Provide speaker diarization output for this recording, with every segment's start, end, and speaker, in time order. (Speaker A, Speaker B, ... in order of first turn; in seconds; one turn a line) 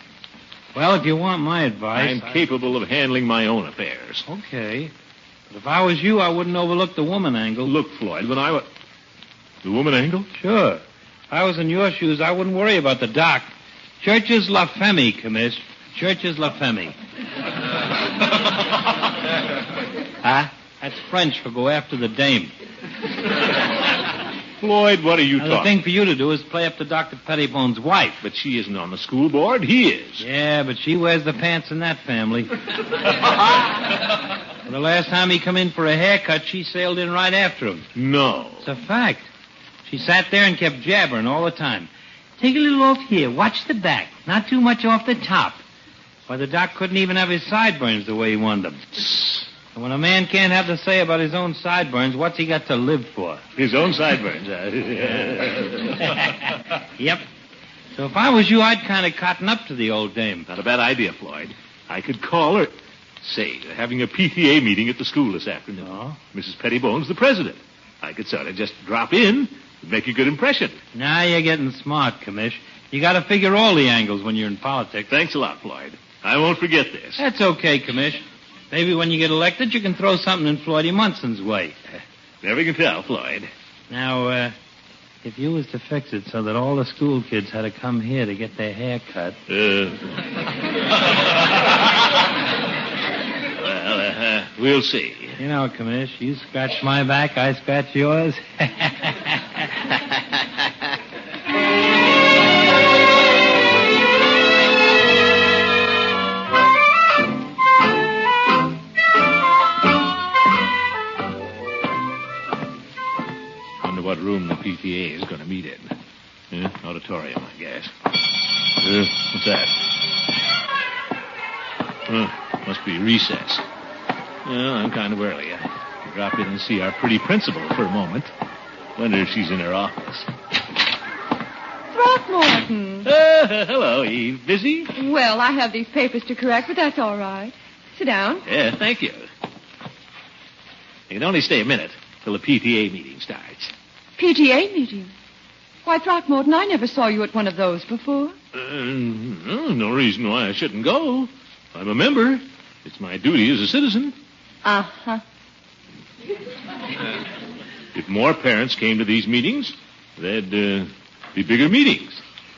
Speaker A: 0.7-2.4
Speaker B: 1.9-4.2
Speaker A: 4.3-4.9
Speaker A: 5.5-7.7
Speaker B: 7.7-8.7
Speaker B: 9.6-10.3
Speaker A: 10.4-16.9
Speaker A: 20.2-22.5
Speaker B: 24.6-25.7
Speaker A: 25.4-28.2
Speaker B: 28.2-30.2
Speaker A: 30.2-32.5
Speaker A: 34.7-37.9
Speaker B: 38.0-38.7
Speaker A: 38.6-39.3
Speaker A: 39.9-45.6
Speaker A: 46.3-53.4
Speaker B: 53.5-56.2
Speaker A: 56.0-57.2
Speaker A: 58.0-60.5
Speaker B: 60.5-70.8
Speaker A: 65.9-66.2
Speaker A: 70.9-75.1
Speaker B: 75.1-77.2
Speaker A: 77.2-81.8
Speaker B: 82.4-83.5
Speaker A: 83.9-84.5
Speaker A: 85.2-89.4
Speaker B: 89.5-90.2
Speaker B: 93.5-95.4
Speaker A: 95.4-99.7
Speaker B: 113.8-116.0
Speaker B: 116.5-117.9
Speaker B: 118.8-119.8
Speaker B: 122.1-123.6
Speaker B: 124.5-128.3
Speaker B: 129.0-130.3
Speaker C: 131.9-133.1
Speaker B: 133.1-134.9
Speaker C: 134.9-138.4
Speaker B: 138.5-139.3
Speaker B: 141.1-143.7
Speaker C: 144.2-145.1
Speaker C: 145.8-148.3
Speaker B: 148.5-154.2
Speaker C: 154.6-155.2
Speaker B: 157.9-162.2